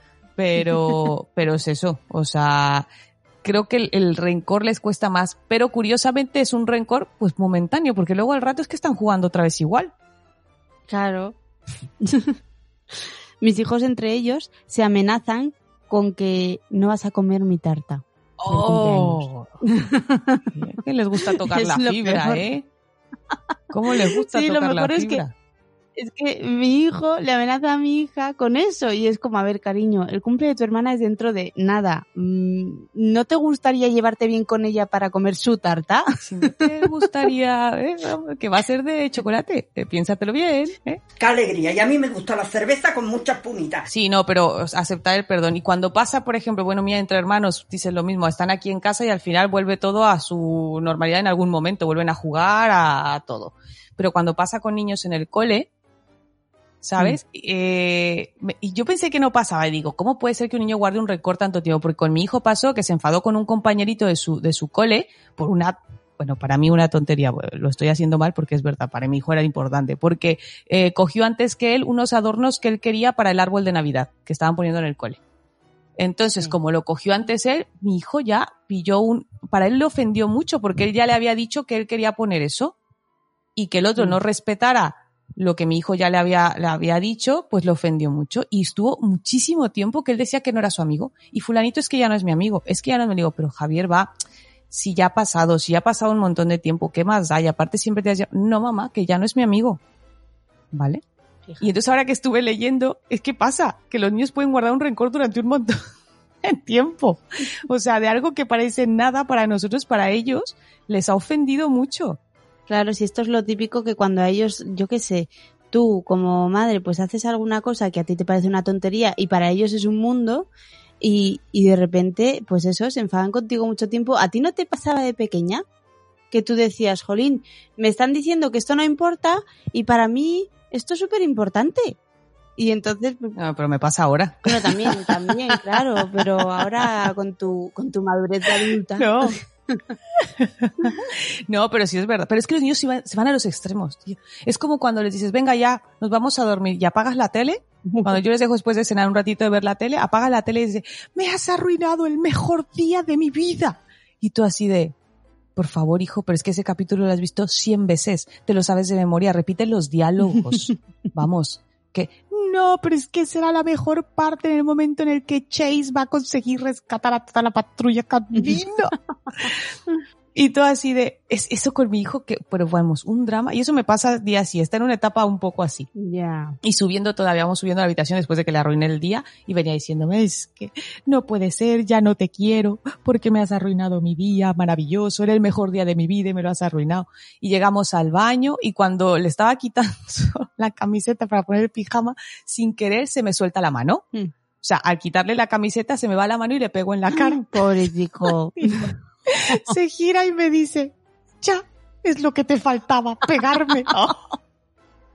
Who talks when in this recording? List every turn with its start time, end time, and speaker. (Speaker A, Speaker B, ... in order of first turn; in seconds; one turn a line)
Speaker A: 0.4-2.9
Speaker A: 3.4-9.9
Speaker B: 10.9-11.4
Speaker B: 12.0-12.4
Speaker B: 13.4-20.5
Speaker A: 18.4-19.5
Speaker A: 20.5-22.7
Speaker B: 21.5-22.4
Speaker A: 23.7-25.3
Speaker B: 24.3-25.2
Speaker B: 26.0-36.9
Speaker A: 36.2-41.0
Speaker C: 41.2-43.9
Speaker A: 43.9-55.7
Speaker A: 56.8-75.2
Speaker A: 76.0-82.8
Speaker A: 83.6-94.1
Speaker A: 94.7-99.8
Speaker A: 100.7-101.0
Speaker A: 101.6-105.8
Speaker A: 106.4-112.2
Speaker B: 112.7-120.5
Speaker B: 121.0-125.6
Speaker B: 126.3-132.0
Speaker B: 132.6-133.3
Speaker A: 133.3-136.7
Speaker B: 134.5-139.8
Speaker A: 138.6-139.4
Speaker A: 140.2-155.0
Speaker B: 147.9-148.2
Speaker A: 155.6-168.9
Speaker B: 168.3-168.6
Speaker A: 170.3-175.9
Speaker B: 176.0-176.6
Speaker A: 176.6-194.1
Speaker A: 194.6-197.5
Speaker B: 197.1-198.9
Speaker A: 198.6-204.2